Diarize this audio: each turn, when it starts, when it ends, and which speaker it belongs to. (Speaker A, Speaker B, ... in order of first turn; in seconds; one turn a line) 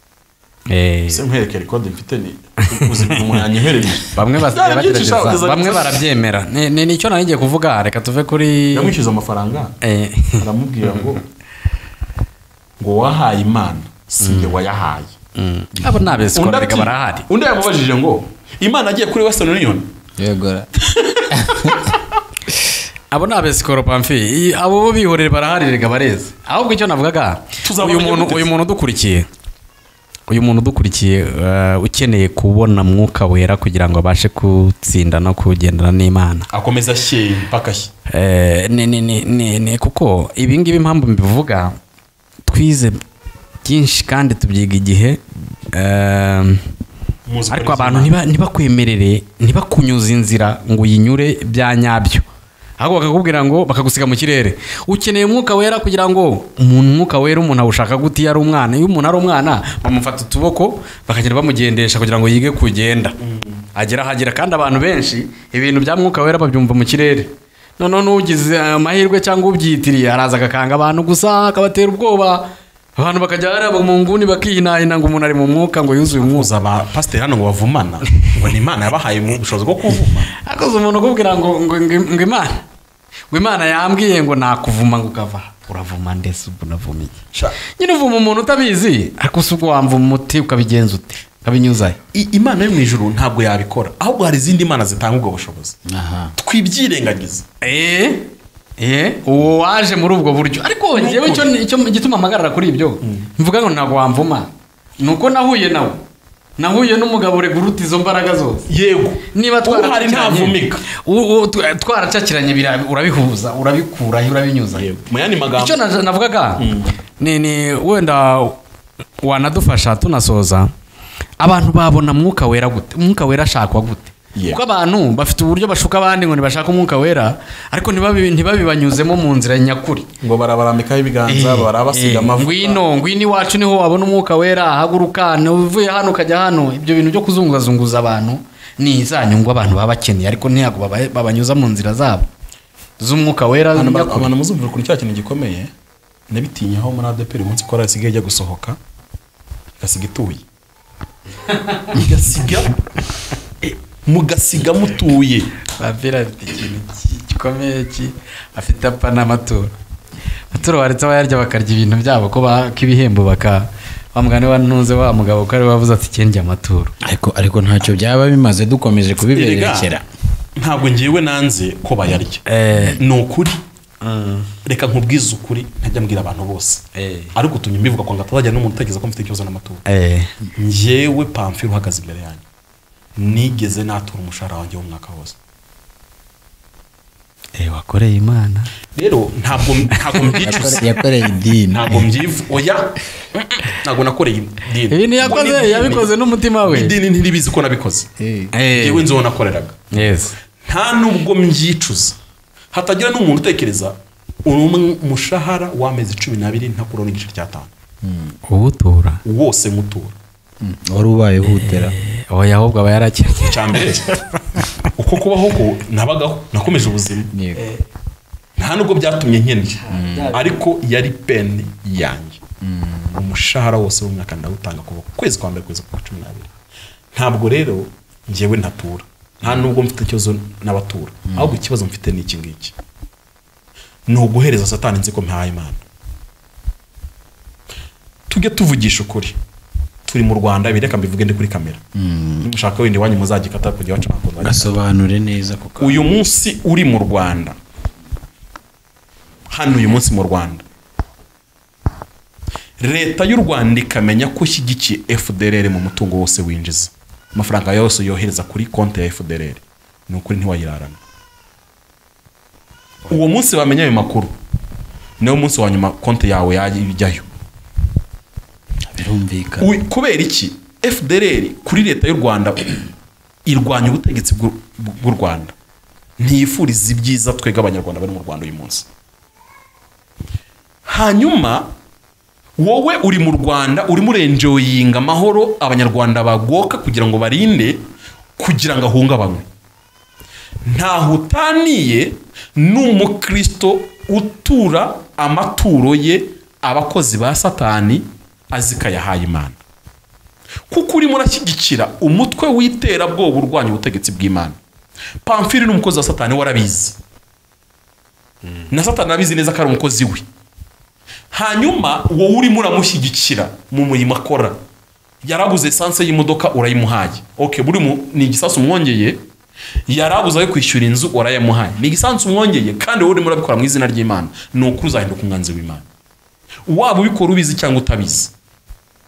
Speaker A: 0.7-1.2
Speaker B: 1.1-6.0
Speaker A: 2.6-3.4
Speaker A: 4.0-8.9
Speaker B: 8.7-9.8
Speaker A: 9.8-11.2
Speaker B: 10.4-11.2
Speaker B: 12.8-15.2
Speaker A: 14.2-14.5
Speaker A: 15.3-17.2
Speaker B: 16.3-19.9
Speaker C: 20.2-20.7
Speaker B: 20.8-22.0
Speaker C: 21.3-21.9
Speaker A: 23.1-29.3
Speaker B: 27.6-28.5
Speaker A: 30.3-36.5
Speaker B: 36.5-37.9
Speaker A: 38.1-41.8
Speaker A: 42.4-43.0
Speaker A: 43.6-46.6
Speaker B: 47.2-48.2
Speaker A: 47.5-52.2
Speaker A: 52.8-63.1
Speaker B: 63.2-63.6
Speaker A: 63.7-76.5
Speaker B: 76.2-80.3
Speaker A: 80.4-82.6
Speaker A: 83.3-87.2
Speaker A: 87.7-92.0
Speaker B: 92.1-95.8
Speaker C: 95.8-96.3
Speaker B: 96.4-97.5
Speaker A: 97.6-106.0
Speaker B: 100.9-101.5
Speaker B: 103.0-103.3
Speaker A: 106.6-108.7
Speaker B: 108.7-110.8
Speaker A: 109.3-114.9
Speaker B: 114.7-115.8
Speaker A: 115.5-116.7
Speaker B: 116.6-116.9
Speaker A: 117.2-118.6
Speaker A: 119.2-120.7
Speaker A: 121.4-130.1
Speaker B: 124.3-124.6
Speaker B: 130.2-132.8
Speaker A: 131.3-142.2
Speaker A: 143.0-144.3
Speaker B: 143.7-145.7
Speaker B: 146.3-148.8
Speaker B: 149.8-150.4
Speaker A: 151.4-152.0
Speaker B: 151.9-152.8
Speaker B: 154.1-155.5
Speaker A: 155.6-159.7
Speaker A: 160.5-166.9
Speaker C: 167.0-170.0
Speaker B: 169.3-169.9
Speaker B: 170.6-172.4
Speaker A: 172.4-173.0
Speaker B: 173.0-173.6
Speaker A: 174.0-174.5
Speaker B: 174.6-179.8
Speaker A: 176.9-177.3
Speaker A: 179.9-180.3
Speaker B: 180.5-182.4
Speaker B: 183.2-185.3
Speaker A: 187.5-188.7
Speaker B: 188.9-191.0
Speaker A: 189.9-190.7
Speaker C: 190.4-192.1
Speaker B: 191.7-196.1
Speaker A: 194.9-196.9
Speaker B: 196.6-198.1
Speaker C: 198.2-198.5
Speaker A: 198.5-199.1
Speaker B: 198.7-199.9
Speaker A: 199.9-200.3
Speaker B: 200.6-202.2
Speaker B: 202.7-207.7
Speaker C: 208.0-208.3
Speaker A: 208.5-209.2
Speaker B: 209.2-210.2
Speaker C: 210.6-211.9
Speaker A: 211.4-214.6
Speaker B: 213.4-214.1
Speaker B: 214.9-217.3
Speaker C: 217.3-217.7
Speaker B: 218.6-222.4
Speaker C: 219.9-220.3
Speaker A: 219.9-220.4
Speaker C: 222.6-223.1
Speaker B: 223.1-226.5
Speaker B: 227.1-232.7
Speaker C: 229.4-229.7
Speaker C: 231.3-231.6
Speaker B: 234.1-235.8
Speaker B: 238.3-239.3
Speaker B: 240.1-241.8
Speaker C: 241.9-242.5
Speaker B: 242.4-244.8
Speaker C: 244.4-246.0
Speaker B: 245.8-247.6
Speaker B: 249.5-250.6
Speaker B: 252.8-261.0
Speaker B: 263.1-264.3
Speaker B: 265.2-267.3
Speaker C: 268.9-269.7
Speaker B: 269.6-272.9
Speaker B: 273.4-275.5
Speaker B: 276.2-278.9
Speaker B: 280.9-281.7
Speaker B: 282.6-287.8
Speaker B: 288.4-289.4
Speaker B: 290.6-299.6
Speaker B: 300.7-304.6
Speaker B: 305.2-307.0
Speaker B: 308.7-310.2
Speaker B: 311.3-314.6
Speaker B: 315.2-319.2
Speaker B: 319.9-325.8
Speaker B: 326.6-328.3